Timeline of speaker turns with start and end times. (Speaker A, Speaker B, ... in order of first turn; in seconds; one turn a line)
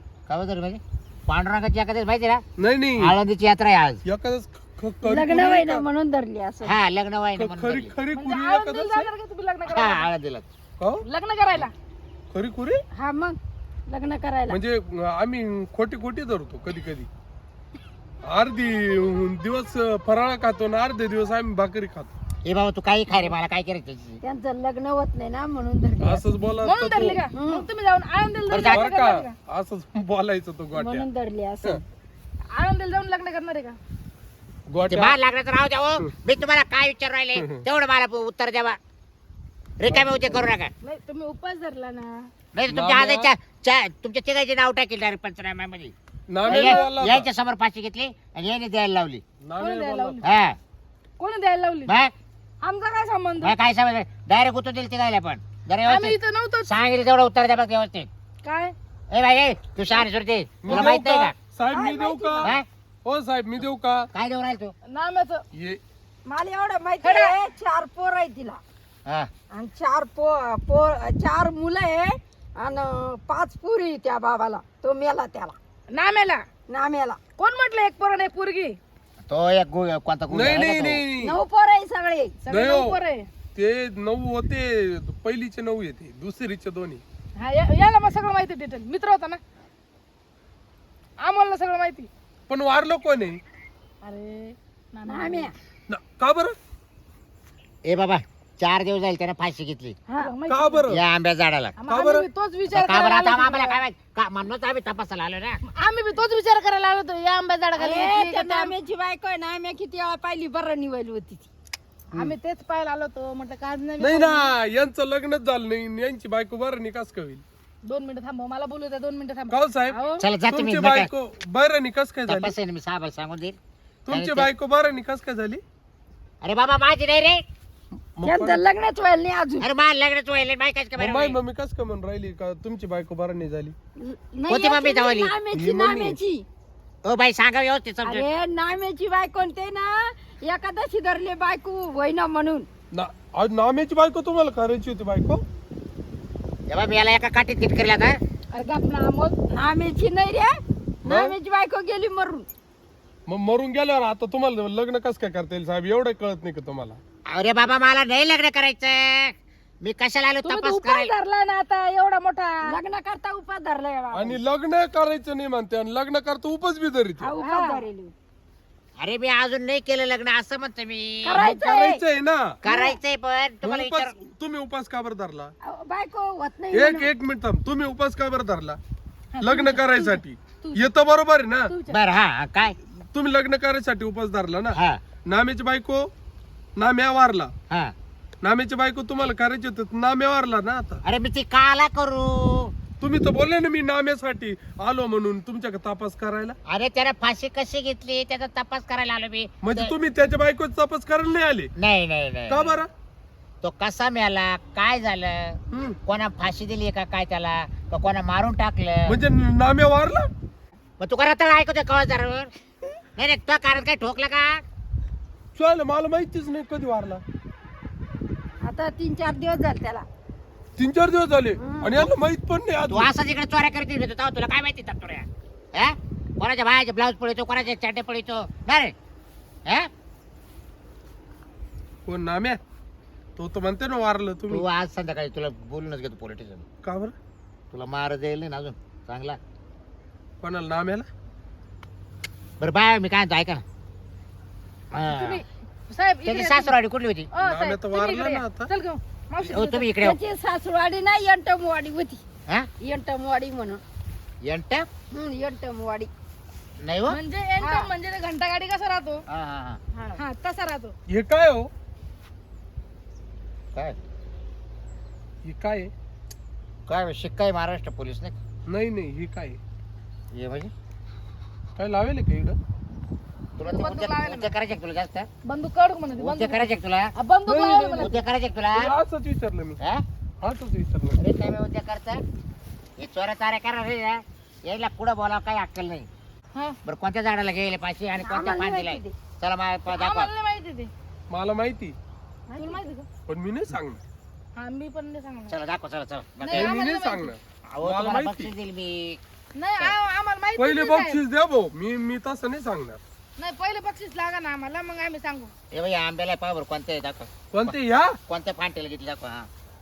Speaker A: 0.3-2.4
Speaker B: 2.6-3.1
Speaker A: 3.0-4.0
Speaker B: 4.0-5.8
Speaker C: 5.0-6.8
Speaker A: 6.6-8.0
Speaker B: 7.4-9.1
Speaker D: 8.1-10.1
Speaker A: 9.7-10.5
Speaker D: 11.0-11.7
Speaker B: 12.3-12.8
Speaker C: 12.9-14.6
Speaker B: 14.5-17.1
Speaker B: 18.3-22.1
Speaker A: 22.4-24.2
Speaker C: 24.2-26.3
Speaker B: 26.0-27.2
Speaker D: 26.6-29.3
Speaker C: 27.3-27.7
Speaker A: 28.5-28.9
Speaker B: 28.6-31.1
Speaker C: 30.7-31.8
Speaker D: 32.5-33.8
Speaker B: 34.7-35.2
Speaker A: 34.9-38.8
Speaker B: 37.4-37.6
Speaker A: 39.8-40.7
Speaker B: 39.9-40.2
Speaker D: 40.8-42.3
Speaker A: 42.5-45.9
Speaker B: 42.7-43.3
Speaker B: 46.3-47.3
Speaker A: 46.5-49.2
Speaker D: 46.5-46.9
Speaker B: 49.4-50.2
Speaker D: 49.6-50.3
Speaker A: 50.2-50.6
Speaker D: 51.2-51.9
Speaker A: 51.9-52.1
Speaker D: 52.6-53.5
Speaker A: 53.4-58.1
Speaker D: 55.8-56.7
Speaker D: 58.4-58.7
Speaker A: 59.1-61.3
Speaker B: 60.6-64.1
Speaker C: 61.7-62.5
Speaker A: 64.1-64.7
Speaker D: 64.9-65.4
Speaker B: 65.5-65.8
Speaker C: 66.3-68.6
Speaker D: 67.0-67.4
Speaker C: 69.5-75.5
Speaker D: 75.9-76.4
Speaker C: 76.7-77.2
Speaker D: 77.4-78.8
Speaker A: 79.2-81.0
Speaker B: 80.3-81.4
Speaker C: 81.2-82.4
Speaker D: 82.4-83.3
Speaker B: 82.5-83.0
Speaker B: 83.5-87.0
Speaker D: 87.4-89.4
Speaker D: 91.2-92.1
Speaker B: 92.5-93.4
Speaker D: 94.0-95.5
Speaker C: 95.1-95.5
Speaker B: 95.9-96.5
Speaker A: 97.8-100.0
Speaker C: 100.1-100.3
Speaker D: 100.2-100.8
Speaker B: 100.5-101.0
Speaker A: 100.9-101.8
Speaker D: 101.8-103.8
Speaker B: 101.9-102.3
Speaker A: 102.7-105.6
Speaker D: 105.7-108.7
Speaker C: 107.8-111.5
Speaker D: 112.1-114.5
Speaker B: 114.0-117.4
Speaker D: 117.8-120.2
Speaker B: 119.5-120.0
Speaker A: 120.2-121.1
Speaker B: 120.5-122.5
Speaker A: 122.3-123.6
Speaker B: 124.1-125.6
Speaker A: 124.1-124.5
Speaker A: 126.4-127.4
Speaker B: 128.2-128.6
Speaker C: 128.2-129.7
Speaker A: 129.6-131.4
Speaker B: 131.0-133.7
Speaker C: 134.0-136.4
Speaker A: 134.5-135.3
Speaker B: 135.5-136.2
Speaker A: 137.0-138.3
Speaker C: 138.0-142.7
Speaker B: 142.9-145.4
Speaker A: 146.7-148.2
Speaker D: 148.5-149.4
Speaker C: 149.5-152.4
Speaker B: 151.0-151.3
Speaker B: 153.3-157.0
Speaker A: 157.3-161.1
Speaker D: 160.4-162.7
Speaker C: 162.7-164.4
Speaker B: 164.1-167.3
Speaker C: 167.2-168.1
Speaker D: 167.4-167.8
Speaker A: 169.0-171.5
Speaker C: 171.2-172.0
Speaker B: 171.3-172.6
Speaker A: 172.6-174.1
Speaker C: 172.7-172.9
Speaker B: 173.6-175.5
Speaker C: 175.6-177.1
Speaker B: 176.7-178.8
Speaker D: 179.3-180.9
Speaker B: 179.4-181.7
Speaker D: 181.7-182.0
Speaker A: 181.9-182.8
Speaker B: 183.0-186.1
Speaker A: 184.7-185.0
Speaker B: 186.8-187.5
Speaker B: 188.4-191.0
Speaker A: 191.0-192.7
Speaker B: 193.0-196.6
Speaker A: 196.7-199.9
Speaker B: 199.6-201.7
Speaker A: 201.8-202.8
Speaker B: 202.5-202.9
Speaker A: 203.6-209.2
Speaker B: 205.7-206.0
Speaker B: 209.1-210.3
Speaker A: 211.0-212.5
Speaker A: 213.2-214.6
Speaker B: 215.6-217.2
Speaker C: 218.6-220.0
Speaker B: 220.8-223.1
Speaker C: 221.6-222.1
Speaker A: 222.9-228.9
Speaker B: 232.1-232.6
Speaker B: 233.4-234.6
Speaker A: 234.5-236.6
Speaker B: 236.8-237.1
Speaker A: 237.7-239.4
Speaker B: 240.4-241.1
Speaker A: 242.6-243.6
Speaker A: 244.9-245.4
Speaker D: 244.9-246.7
Speaker A: 246.2-247.3
Speaker D: 247.3-249.9
Speaker B: 247.4-248.7
Speaker A: 249.4-250.2
Speaker C: 250.0-252.2
Speaker C: 252.8-253.8
Speaker A: 254.4-254.9
Speaker C: 255.1-256.1
Speaker A: 256.8-257.2
Speaker D: 257.1-259.2
Speaker C: 257.6-257.9
Speaker A: 259.3-259.8
Speaker C: 259.9-260.2
Speaker D: 260.1-260.9
Speaker B: 261.1-261.7
Speaker B: 265.4-265.9
Speaker A: 266.9-268.4
Speaker B: 268.7-269.6
Speaker A: 270.3-270.7
Speaker B: 271.8-272.6
Speaker A: 273.6-275.3
Speaker D: 273.6-274.5
Speaker D: 275.4-278.1
Speaker A: 276.1-277.1
Speaker B: 277.4-278.2
Speaker A: 277.9-278.9
Speaker B: 278.7-279.8
Speaker B: 280.4-281.2
Speaker A: 281.2-282.2
Speaker A: 283.0-286.1
Speaker A: 286.8-290.3
Speaker C: 288.2-289.1
Speaker D: 289.9-290.9
Speaker B: 291.3-291.9
Speaker C: 292.5-292.9
Speaker D: 292.6-293.1
Speaker B: 293.3-294.0
Speaker D: 294.6-295.5
Speaker A: 295.5-296.8
Speaker D: 296.4-297.3
Speaker B: 296.5-298.5
Speaker A: 297.7-299.2
Speaker D: 299.6-301.2
Speaker B: 300.6-303.0
Speaker D: 303.4-305.5
Speaker A: 305.7-307.7
Speaker B: 307.5-308.2
Speaker A: 308.3-309.5